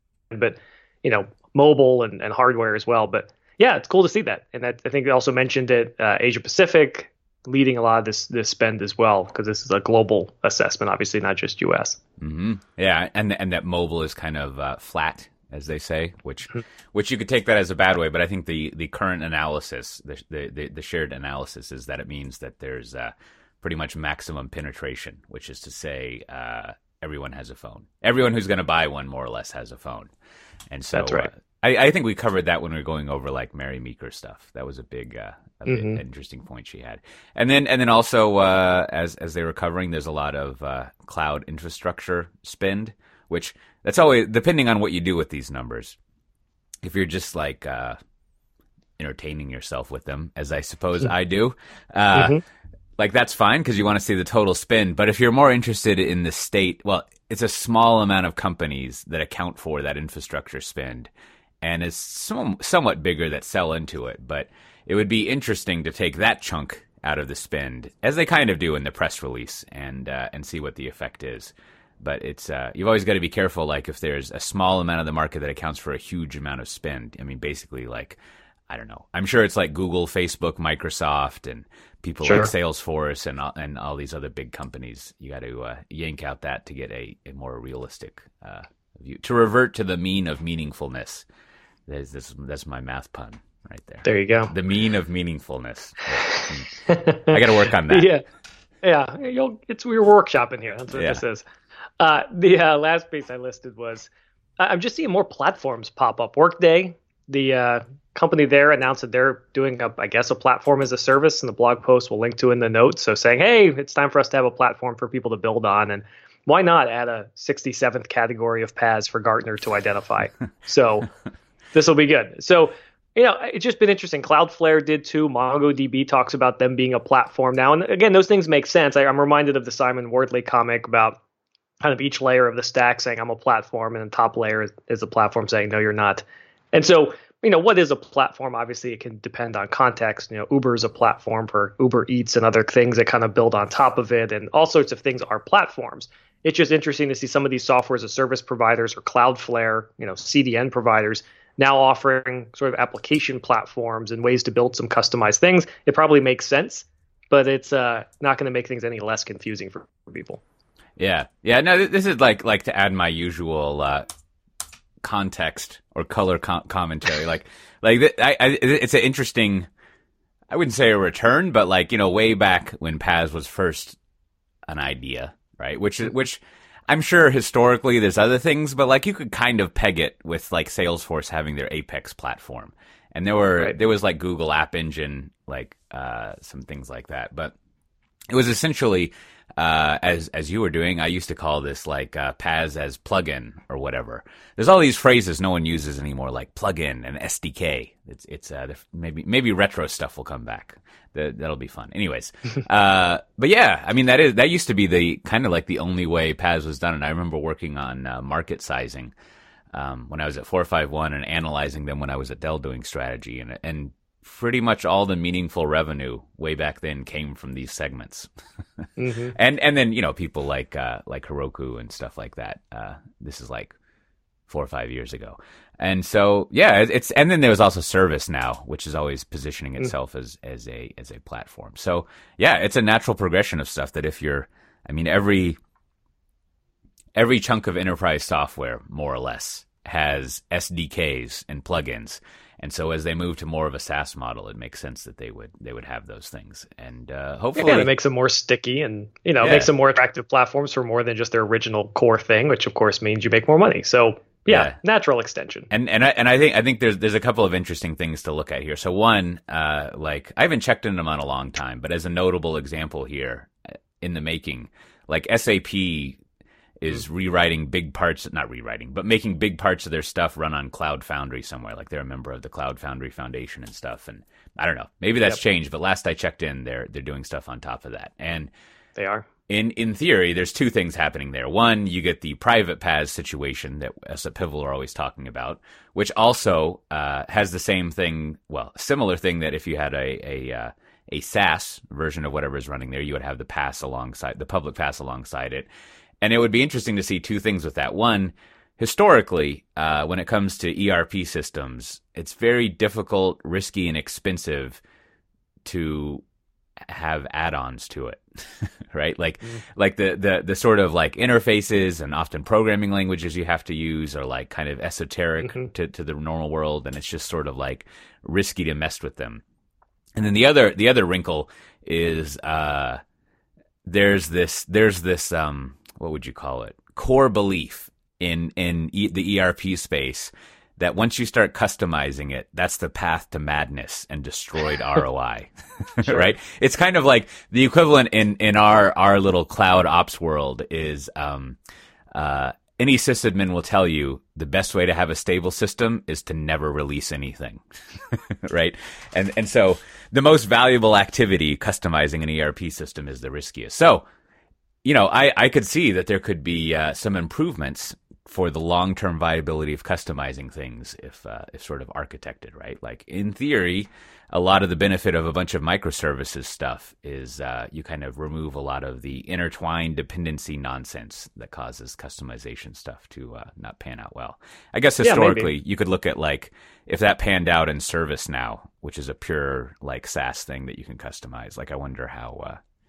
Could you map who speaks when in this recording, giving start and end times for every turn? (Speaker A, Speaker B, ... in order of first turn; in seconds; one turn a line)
Speaker A: 0.3-12.0
Speaker B: 12.2-30.1
Speaker B: 30.7-46.0
Speaker A: 30.9-31.3
Speaker A: 35.7-36.0
Speaker B: 46.8-48.0
Speaker B: 49.0-52.4
Speaker A: 52.1-52.4
Speaker B: 53.0-61.1
Speaker B: 61.6-78.2
Speaker B: 78.7-91.2
Speaker A: 82.2-82.5
Speaker B: 91.9-98.1
Speaker A: 94.0-94.5
Speaker A: 96.4-98.2
Speaker A: 98.8-101.4
Speaker B: 100.9-101.2
Speaker A: 102.0-121.1
Speaker A: 121.7-131.2
Speaker A: 131.8-160.4
Speaker B: 161.0-164.0
Speaker B: 165.0-169.7
Speaker B: 170.5-174.0
Speaker B: 174.7-187.5
Speaker B: 188.3-209.1
Speaker B: 209.7-218.3
Speaker B: 218.8-223.7
Speaker A: 219.0-219.3
Speaker B: 224.5-235.6
Speaker B: 237.2-247.9
Speaker A: 247.6-255.7
Speaker B: 249.4-249.7
Speaker B: 254.5-254.8
Speaker B: 255.7-266.2
Speaker B: 266.8-278.5
Speaker A: 279.0-279.2
Speaker B: 279.5-295.7
Speaker B: 296.2-304.8
Speaker B: 305.6-306.2
Speaker B: 306.9-319.4
Speaker B: 320.1-323.0
Speaker B: 323.8-341.6
Speaker A: 336.0-336.3
Speaker B: 342.1-354.1
Speaker B: 354.8-382.6
Speaker A: 375.0-375.5